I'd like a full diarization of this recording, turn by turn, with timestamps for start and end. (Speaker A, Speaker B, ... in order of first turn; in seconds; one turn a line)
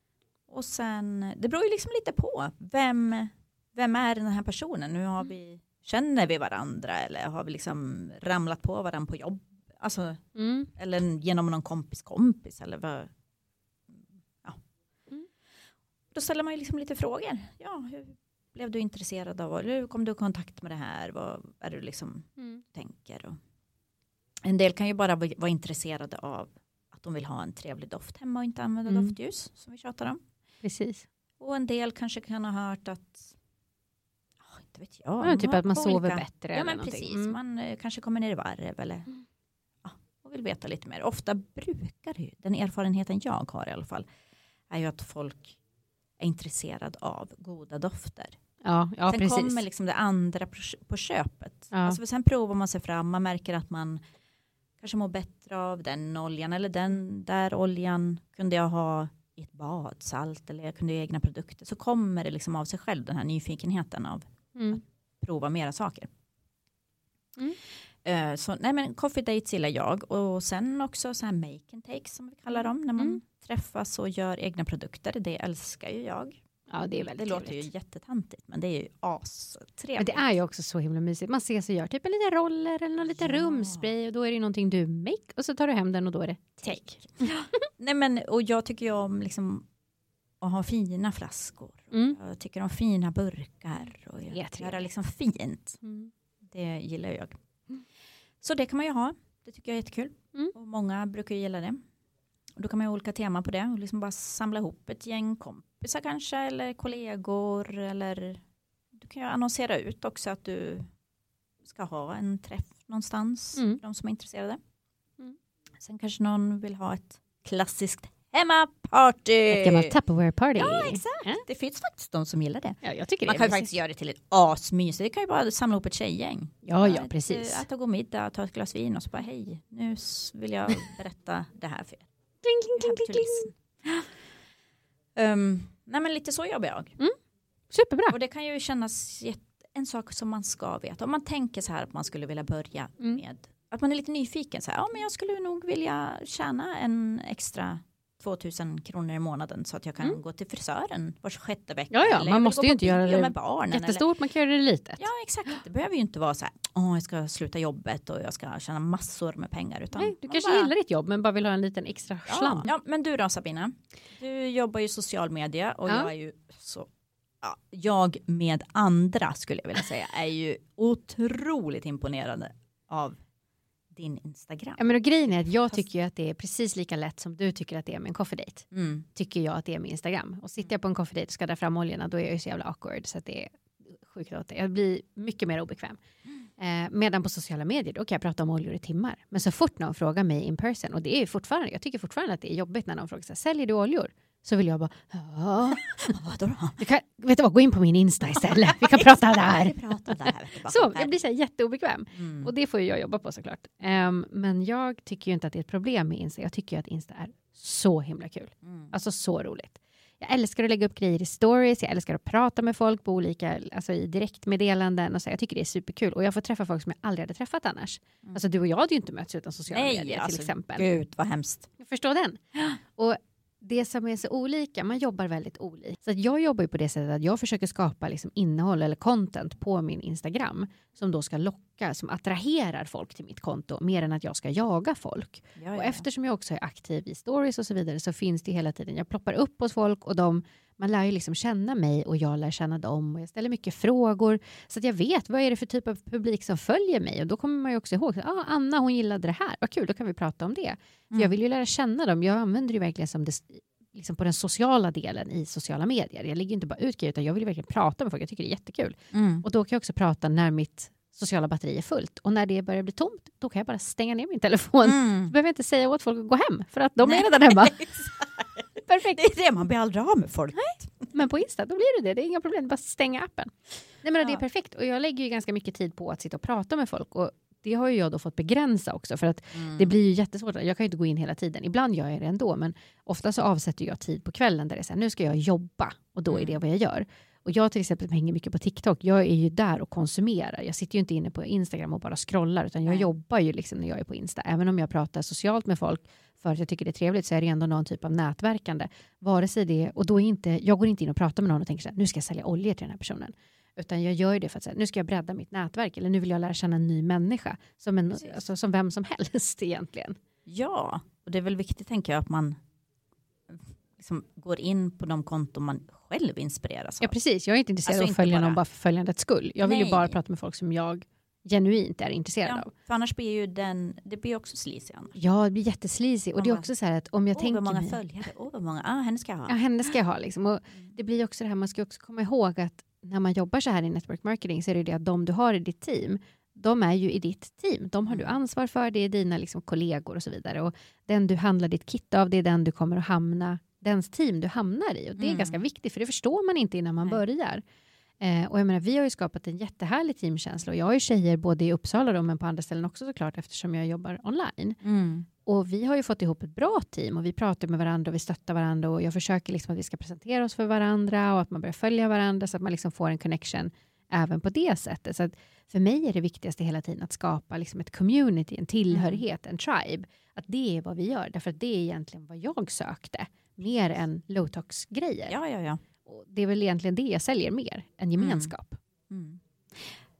Speaker A: 0.5-10.2
Speaker B: 10.3-10.7
Speaker A: 10.7-13.1
Speaker A: 13.9-14.6
Speaker A: 16.1-23.4
Speaker B: 22.4-22.6
Speaker A: 24.4-30.2
Speaker B: 28.9-29.1
Speaker B: 30.6-31.1
Speaker A: 31.4-33.3
Speaker A: 34.4-39.1
Speaker B: 35.2-37.4
Speaker A: 39.8-44.1
Speaker A: 44.7-45.6
Speaker A: 46.2-48.4
Speaker B: 48.6-49.6
Speaker A: 49.1-54.0
Speaker B: 51.7-52.0
Speaker A: 54.8-66.1
Speaker B: 64.5-64.8
Speaker A: 68.0-76.4
Speaker B: 76.7-77.7
Speaker A: 77.0-80.2
Speaker B: 80.0-87.4
Speaker A: 83.0-83.9
Speaker A: 86.7-89.7
Speaker A: 90.4-95.8
Speaker B: 91.9-92.2
Speaker B: 94.3-94.9
Speaker B: 95.8-96.1
Speaker A: 96.4-97.3
Speaker A: 98.4-101.8
Speaker A: 102.6-108.4
Speaker A: 108.9-110.9
Speaker A: 111.6-114.6
Speaker A: 115.8-120.0
Speaker B: 119.5-121.4
Speaker A: 120.5-132.1
Speaker B: 122.8-123.7
Speaker B: 126.6-127.6
Speaker B: 132.4-133.5
Speaker A: 132.8-134.1
Speaker A: 135.1-137.0
Speaker B: 137.7-138.2
Speaker A: 138.1-154.1
Speaker B: 151.9-155.0
Speaker A: 155.0-160.7
Speaker B: 159.9-162.7
Speaker A: 162.3-166.9
Speaker A: 167.4-173.2
Speaker A: 173.9-174.8
Speaker B: 174.8-186.0
Speaker A: 175.4-175.8
Speaker A: 178.7-179.1
Speaker B: 186.6-196.1
Speaker A: 195.7-196.8
Speaker B: 196.8-220.8
Speaker A: 198.3-201.2
Speaker A: 202.1-202.5
Speaker A: 208.6-208.9
Speaker A: 219.7-221.7
Speaker B: 221.8-267.9
Speaker A: 235.6-236.0
Speaker A: 259.1-259.4
Speaker A: 264.8-265.3
Speaker A: 267.0-271.1
Speaker B: 268.9-269.3
Speaker B: 270.6-310.2
Speaker A: 279.5-279.9
Speaker A: 286.3-286.6
Speaker A: 310.4-312.6
Speaker A: 313.5-317.1
Speaker B: 317.0-322.7
Speaker A: 317.9-318.6
Speaker A: 319.6-320.2
Speaker A: 322.4-325.2
Speaker B: 325.1-328.0
Speaker A: 326.4-326.7
Speaker A: 327.3-329.6
Speaker B: 329.5-347.6
Speaker A: 338.1-338.4
Speaker A: 345.2-345.6
Speaker B: 348.2-354.8
Speaker A: 354.8-355.3
Speaker B: 355.4-375.4
Speaker A: 368.9-369.2
Speaker A: 375.3-375.8
Speaker B: 376.1-378.8
Speaker A: 378.2-378.5
Speaker A: 379.1-379.9